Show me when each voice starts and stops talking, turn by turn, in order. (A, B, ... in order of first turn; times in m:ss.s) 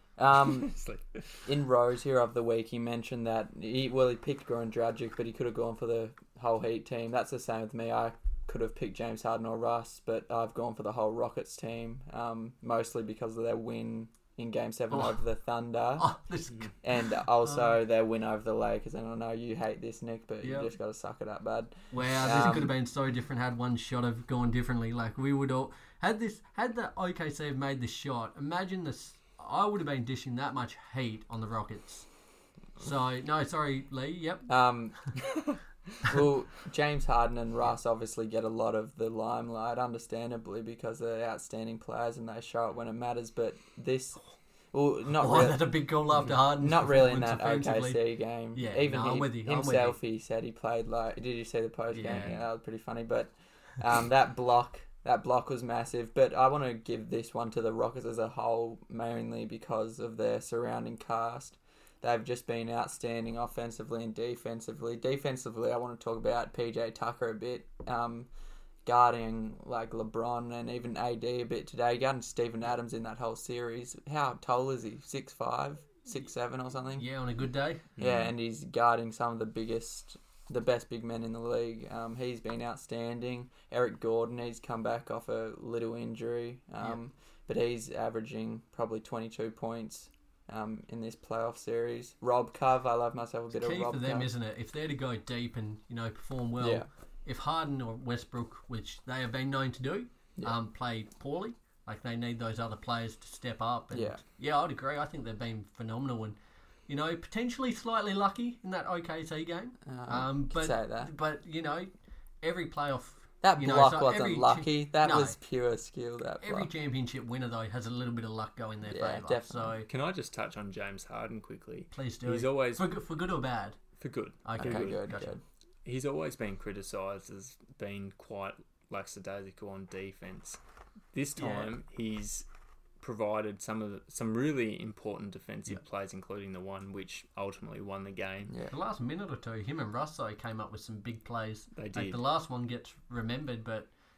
0:00.2-0:00.7 A
0:00.5-0:01.2 B
0:01.4-0:16.1 A
0:14.9-0:15.2 C
0:16.0-0:16.8 C
0:16.8-0:22.7 A
0:17.4-0:17.8 C
0:20.4-0:20.7 C
0:21.9-0:32.1 C
0:32.8-0:34.5 C
0:34.5-0:35.4 A
0:36.0-0:44.2 A
0:44.7-1:08.3 A
0:45.1-0:50.0 C
0:51.9-0:52.3 C
0:52.0-0:52.4 B
1:08.8-1:17.0 A
1:17.0-1:17.8 C
1:18.0-1:18.3 B
1:18.0-1:34.3 A
1:33.5-1:46.4 C
1:36.6-1:36.9 A
1:43.9-1:44.2 A
1:46.9-1:51.9 C
1:49.8-1:51.1 A
1:52.4-1:55.4 C
1:53.4-1:56.7 A
1:56.4-1:59.9 C
1:58.8-1:59.8 A
1:59.9-2:03.0 B
2:01.9-2:03.8 C
2:04.0-2:05.1 B
2:04.4-2:05.3 C
2:04.6-2:05.4 A
2:05.8-2:10.6 B
2:11.1-2:12.4 B
2:11.4-2:11.7 C
2:13.0-2:18.6 B
2:18.5-2:18.7 A
2:18.7-2:23.9 C
2:21.7-2:22.2 B